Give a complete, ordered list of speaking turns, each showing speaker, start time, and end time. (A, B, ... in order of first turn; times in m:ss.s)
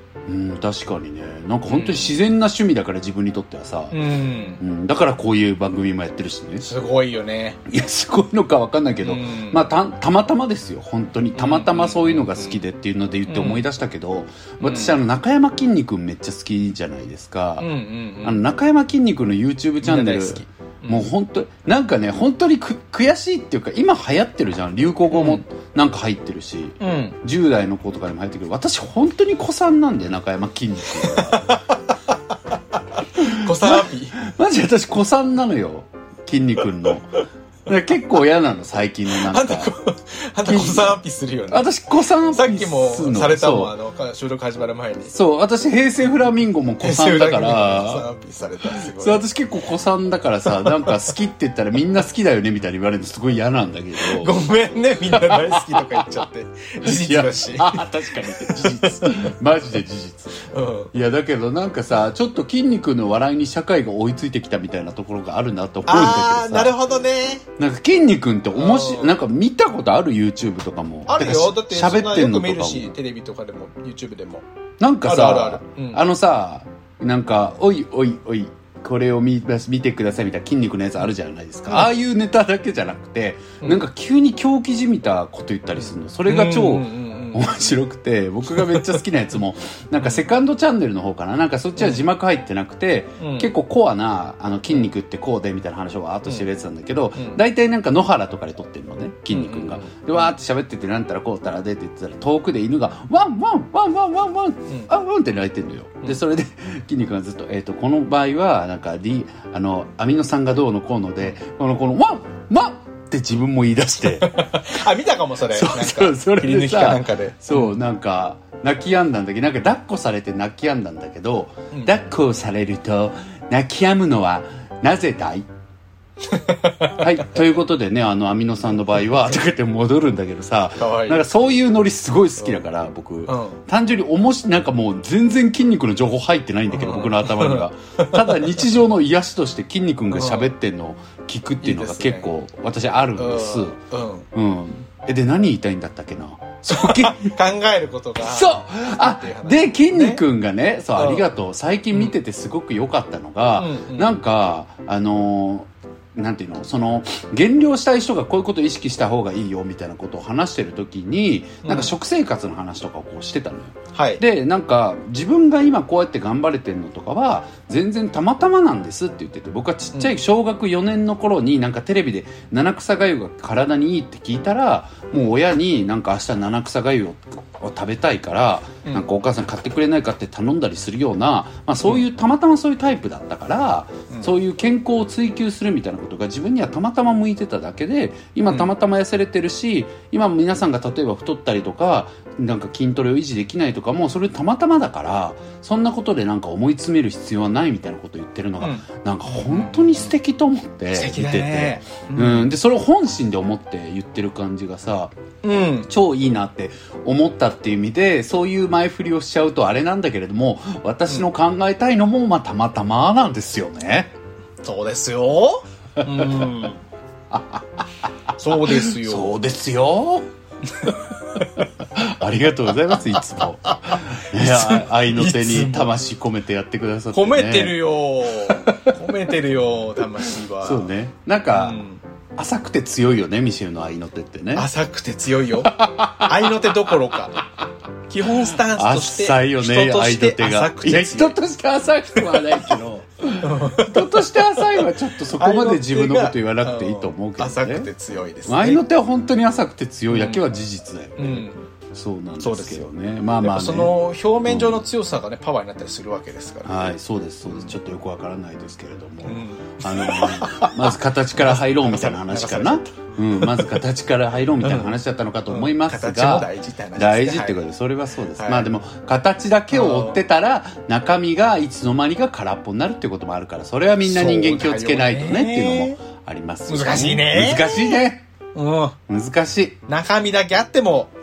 0:00.2-0:04.0 A
0:01.7-0:02.2 B
0:03.9-0:04.6 B
0:04.6-0:06.7 A
0:06.6-0:07.6 B
0:07.7-0:17.7 A
0:09.0-0:09.7 B
0:11.3-0:12.6 B
0:13.3-0:13.6 B
0:14.6-0:15.0 B
0:17.6-0:18.4 B
0:18.2-0:31.6 A
0:19.8-0:21.1 B
0:25.1-0:25.4 B
0:26.8-0:27.2 B
0:31.0-0:31.9 B
0:33.2-0:34.2 B
0:33.2-0:39.7 A
0:39.1-0:41.7 B
0:40.5-0:41.0 A
0:41.5-0:43.7 A
0:42.2-0:45.1 B
0:45.1-0:48.0 A
0:46.8-0:49.2 B
0:48.8-0:54.4 A
0:50.6-0:51.0 B
0:54.0-0:59.3 B
0:55.1-0:55.9 A
0:56.8-1:06.8 A
1:00.4-1:00.9 B
1:05.9-1:07.4 B
1:07.6-1:12.9 A
1:08.5-1:09.2 B
1:11.1-1:14.4 B
1:14.8-1:54.8 A
1:15.0-1:16.0 B
1:26.3-1:27.7 B
1:28.5-1:29.0 B
1:30.0-1:30.3 B
1:31.8-1:32.0 B
1:33.2-1:33.5 B
1:39.3-1:40.3 B
1:54.2-1:57.8 B
1:55.5-2:05.5 A
2:06.3-2:07.0 B
2:07.0-2:23.8 A
2:10.8-2:11.2 B
2:13.3-2:13.6 B
2:16.7-2:18.4 B
2:20.1-2:20.5 B
2:21.6-2:22.3 B
2:23.2-2:24.3 B
2:24.3-2:27.3 A
2:26.7-2:30.2 B
2:28.2-3:25.1 A
2:30.9-2:31.2 B
2:33.6-2:34.2 B
2:41.6-2:41.9 B
2:43.9-2:44.2 B
3:18.6-3:20.2 B
3:20.9-3:22.5 B
3:25.4-3:25.9 B
3:25.8-3:34.1 A
3:34.6-3:36.8 B
3:36.0-3:36.5 A
3:37.3-3:40.3 A
3:38.4-3:39.4 B
3:40.7-3:41.5 B
3:41.4-3:47.8 A
3:43.6-3:45.9 B
3:47.1-3:50.9 B
3:48.4-3:48.9 A
3:50.6-3:51.8 A
3:51.5-3:52.0 B
3:52.4-3:54.7 A
3:54.5-3:57.4 B
3:55.6-3:56.7 A
3:58.1-4:01.4 B
3:58.4-4:07.9 A
4:03.4-4:04.6 B
4:05.3-4:08.8 B
4:08.4-4:13.9 A
4:10.1-4:10.4 B
4:11.2-4:11.6 B
4:12.4-4:12.9 B
4:13.4-4:16.9 B
4:14.4-4:14.8 A
4:16.6-4:38.2 A
4:17.5-4:17.7 B
4:19.2-4:23.8 B
4:24.6-4:24.9 B
4:25.5-4:27.6 B
4:28.4-4:28.7 B
4:29.7-4:30.2 B
4:34.0-4:36.0 B
4:36.7-4:38.0 B
4:38.5-4:39.0 B
4:39.1-4:39.8 A
4:39.9-4:41.1 B